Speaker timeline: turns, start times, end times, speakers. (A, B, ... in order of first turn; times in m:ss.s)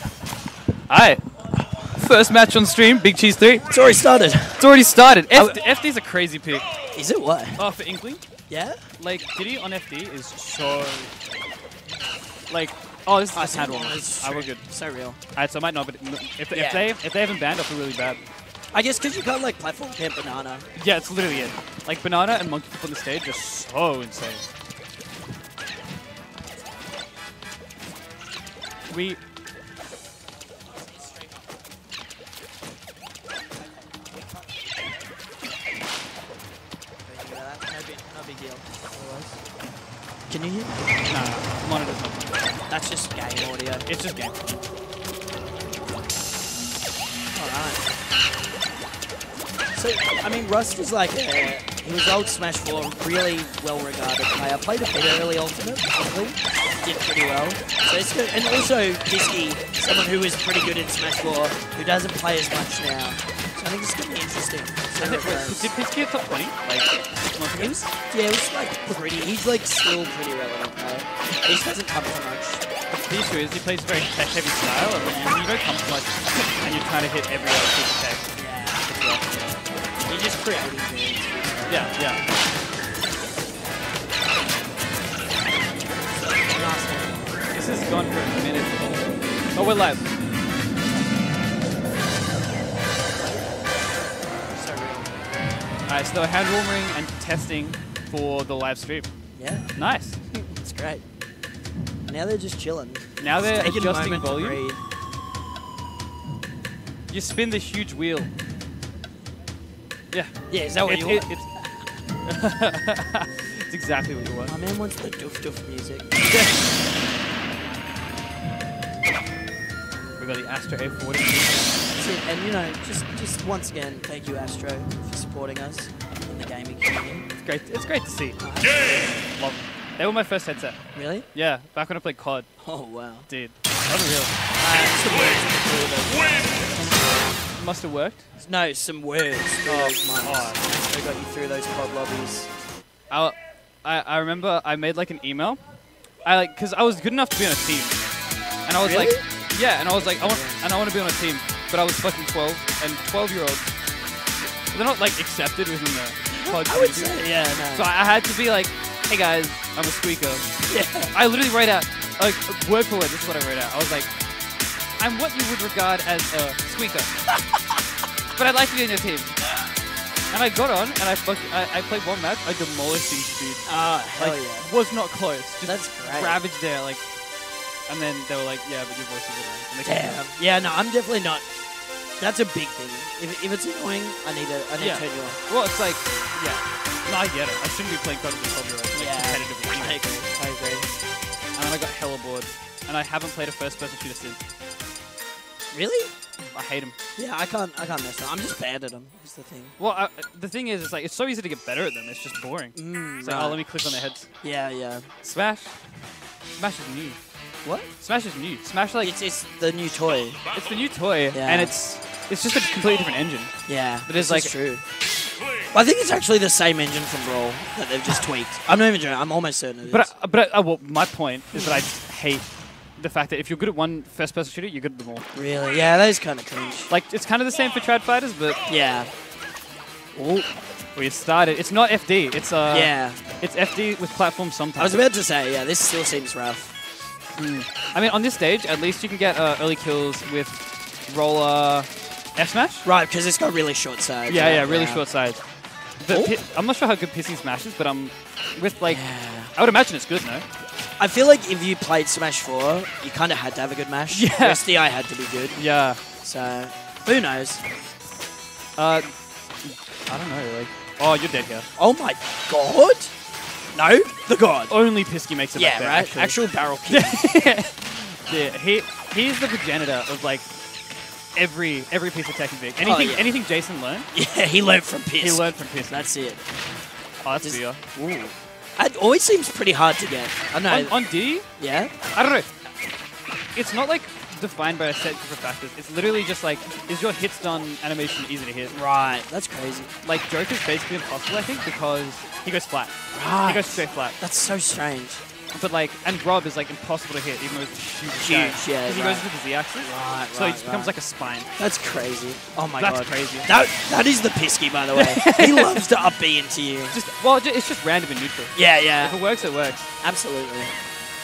0:00.9-0:01.2 A
0:02.0-0:03.7 A
0:03.7-0:04.7 B
0:04.6-0:06.7 A
0:05.3-0:05.6 B
0:06.9-0:07.6 B
0:07.6-0:08.2 A
0:08.5-0:08.8 B
0:09.0-0:11.1 A
0:12.5-0:14.6 A
0:13.3-0:15.2 B
0:15.4-0:18.2 A
0:16.5-0:16.9 B
0:18.7-0:20.7 B
0:20.8-0:24.5 A
0:28.9-0:29.2 A
0:31.0-0:31.3 B
0:34.1-0:35.0 B
0:37.1-0:39.4 B
0:40.3-0:40.8 B
0:41.0-0:42.6 A
0:42.7-0:43.9 B
0:43.9-0:44.4 A
0:47.3-0:47.9 B
0:49.7-1:05.7 B
1:05.0-1:07.8 A
1:07.6-1:12.6 B
1:12.9-1:19.3 A
1:18.4-1:18.9 B
1:20.1-1:21.9 B
1:21.7-1:22.2 A
1:26.2-1:27.2 B
1:27.5-1:30.1 A
1:33.1-1:33.8 B
1:34.5-1:35.5 B
1:35.9-1:39.1 A
1:39.4-1:39.7 B
1:39.8-1:40.2 A
1:40.3-1:41.0 B
1:42.1-1:44.8 B
1:43.2-1:44.6 A
1:47.1-1:48.3 A
1:50.1-1:51.5 A
1:50.5-1:51.7 B
1:52.2-1:54.6 A
1:54.5-1:56.1 B
1:56.2-1:56.6 A
2:00.2-2:01.9 A
2:01.9-2:07.3 B
2:07.4-2:08.4 A
2:08.4-2:09.1 B
2:09.3-2:12.5 A
2:11.0-2:11.3 B
2:12.6-2:13.3 B
2:13.3-2:14.4 A
2:14.6-2:16.8 B
2:17.5-2:18.3 A
2:18.4-2:22.5 B
2:19.7-2:20.6 A
2:23.1-2:25.6 A
2:26.2-2:28.1 A
2:28.6-2:33.8 A
2:28.8-2:29.2 B
2:30.0-2:30.6 B
2:34.7-2:40.5 A
2:36.3-2:37.9 B
2:40.7-2:41.2 B
2:41.1-2:44.1 A
2:45.0-2:47.1 A
2:48.4-2:49.4 A
2:50.3-2:57.1 A
2:53.6-2:54.7 B
2:55.6-2:56.4 B
2:57.9-3:00.2 A
2:59.8-3:01.5 B
3:02.2-3:05.4 B
3:04.8-3:10.1 A
3:09.0-3:10.9 B
3:11.6-3:14.4 A
3:15.7-3:16.1 B
3:16.5-3:17.0 A
3:17.2-3:19.8 B
3:19.8-3:24.3 A
3:22.8-3:23.6 B
3:24.4-3:25.1 B
3:25.2-3:25.8 A
3:26.6-3:27.2 A
3:27.6-3:27.9 B
3:28.0-3:29.1 A
3:29.0-3:30.4 B
3:30.5-3:33.5 A
3:31.3-3:31.8 B
3:33.7-3:34.8 B
3:34.0-3:34.5 A
3:35.7-3:40.1 B
3:39.9-3:45.3 A
3:41.5-3:41.8 B
3:45.4-3:46.9 B
3:46.9-3:48.6 A
3:48.7-3:49.1 B
3:50.1-3:50.5 B
3:51.0-3:55.0 A
3:52.7-3:53.2 B
3:54.8-3:56.7 B
3:57.4-4:02.9 A
4:02.8-4:05.0 B
4:04.3-4:05.4 A
4:06.0-4:09.0 A
4:06.1-4:06.4 B
4:08.9-4:09.5 B
4:09.5-4:10.5 A
4:11.0-4:15.6 B
4:14.1-4:14.7 A
4:15.6-4:16.0 A
4:16.2-4:17.6 B
4:18.8-4:19.1 A
4:19.6-4:21.7 A
4:21.8-4:23.1 B
4:23.7-4:24.7 B
4:24.7-4:26.4 A
4:25.6-4:27.4 B
4:26.9-4:30.5 A
4:31.3-4:34.1 A
4:32.8-4:33.4 B
4:34.1-4:36.4 B
4:35.2-4:36.1 A
4:37.2-4:37.8 A
4:37.4-4:41.0 B
4:40.7-4:41.5 A
4:41.6-4:41.9 B
4:42.1-4:42.5 A
4:43.6-4:48.8 A
4:48.7-4:49.9 B
4:50.0-4:54.2 A
4:53.1-4:55.2 B
4:55.5-5:01.5 A
4:58.2-4:59.3 B
4:59.8-5:01.0 B
5:01.6-5:07.0 B
5:02.7-5:03.5 A
5:04.9-5:05.8 A
5:06.9-5:09.9 A
5:08.5-5:09.2 B
5:10.0-5:10.7 B